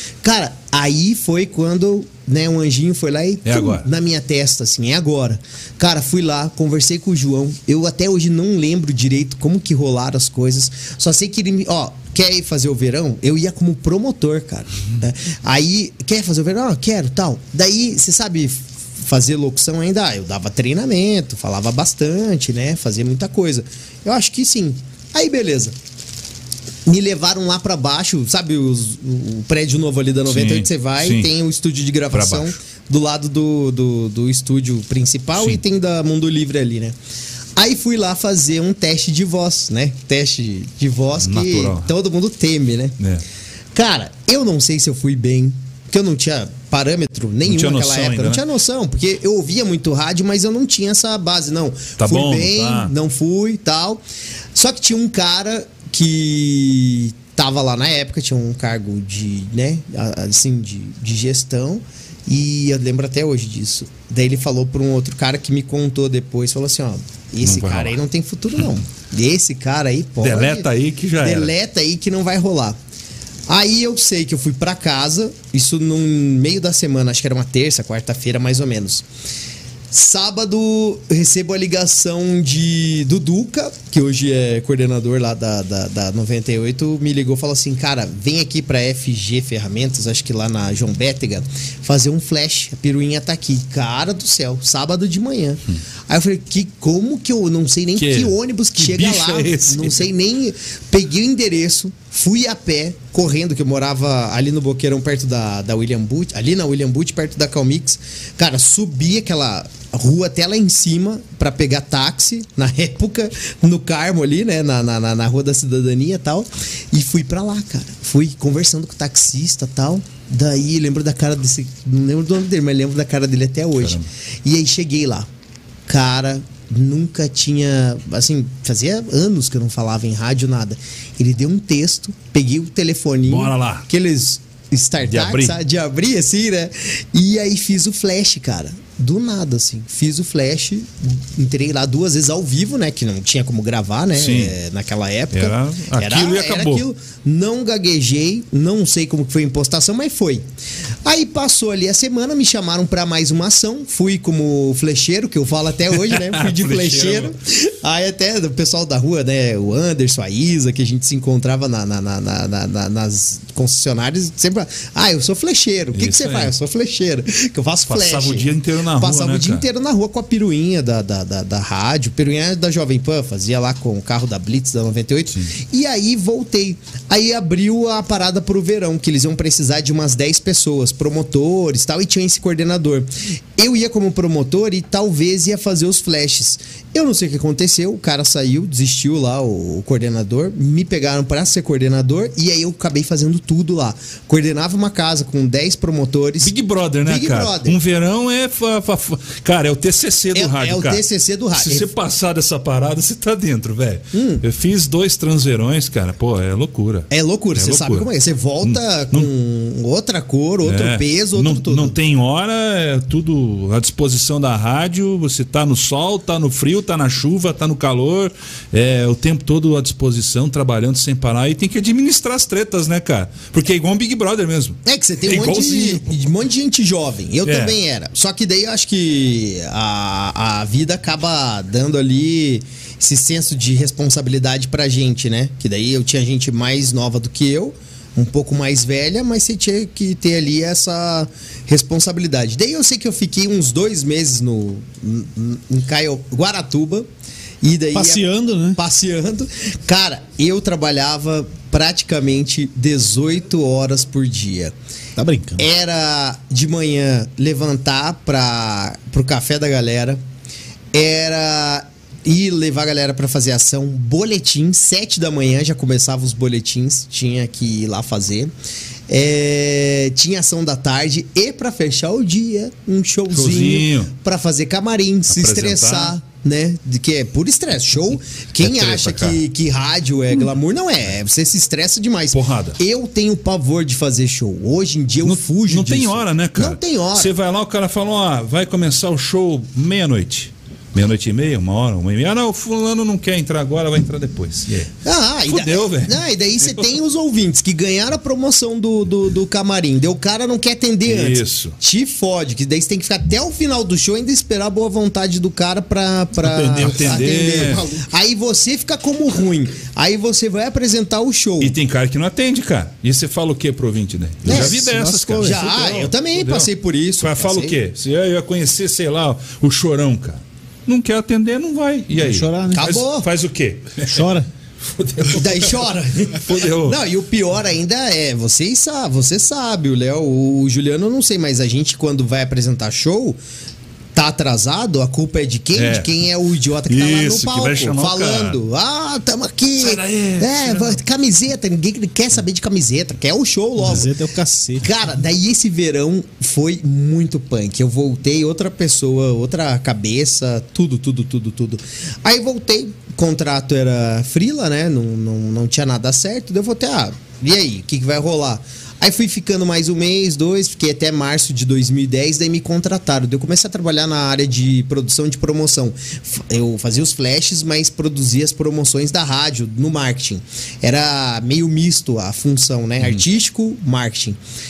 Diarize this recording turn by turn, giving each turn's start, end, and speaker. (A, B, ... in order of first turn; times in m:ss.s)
0:00.2-0:25.8 A
0:03.4-0:03.9 B
0:26.8-0:37.0 A
0:30.3-0:31.3 B
0:32.1-0:32.5 B
0:37.6-0:42.9 A
0:41.2-0:41.9 B
0:43.7-0:54.0 A
0:47.4-0:48.4 B
0:52.0-0:52.9 B
0:54.5-1:10.7 A
1:07.4-1:08.0 B
1:10.2-1:11.5 B
1:11.2-1:12.8 A
1:13.5-1:19.0 A
1:19.9-2:05.3 A
1:38.0-1:40.0 B
2:03.8-2:04.0 B
2:05.9-2:30.4 A
2:13.3-2:13.8 B
2:15.0-2:15.5 B
2:24.1-2:24.5 B
2:25.3-2:26.8 B
2:31.0-3:16.5 A
2:36.1-2:37.3 B
2:45.9-2:46.5 B
2:47.9-2:49.6 B
3:16.4-3:21.0 B
3:17.0-3:17.8 A
3:20.3-3:21.9 A
3:21.5-3:28.1 B
3:24.1-3:24.4 A
3:27.1-3:32.0 A
3:28.6-3:29.3 B
3:30.6-3:46.0 B
3:44.8-4:07.1 A
3:47.4-3:47.7 B
4:07.6-4:14.7 A
4:07.9-4:08.8 C
4:15.2-4:15.6 C
4:15.6-4:20.2 A
4:20.9-4:28.5 A
4:29.1-4:47.3 A
4:33.3-4:34.1 B
4:35.3-4:36.2 B
4:38.6-4:39.4 B
4:42.3-4:42.8 B
4:45.2-4:54.9 B
4:55.0-5:11.8 A
4:55.5-4:56.9 B
5:01.0-5:01.8 B
5:06.4-5:07.8 B
5:06.7-5:07.5 C
5:11.6-5:24.2 B
5:14.4-5:14.8 A
5:14.4-5:16.1 C
5:15.4-5:17.7 A
5:22.2-5:22.9 C
5:22.7-5:23.3 A
5:24.0-5:24.5 C
5:25.0-5:25.7 B
5:25.3-5:33.4 A
5:26.3-5:27.0 B
5:34.1-5:44.1 A
5:35.7-5:36.1 B
5:36.9-5:38.6 B
5:39.8-5:41.0 B
5:43.8-5:44.9 C
5:44.8-6:14.4 A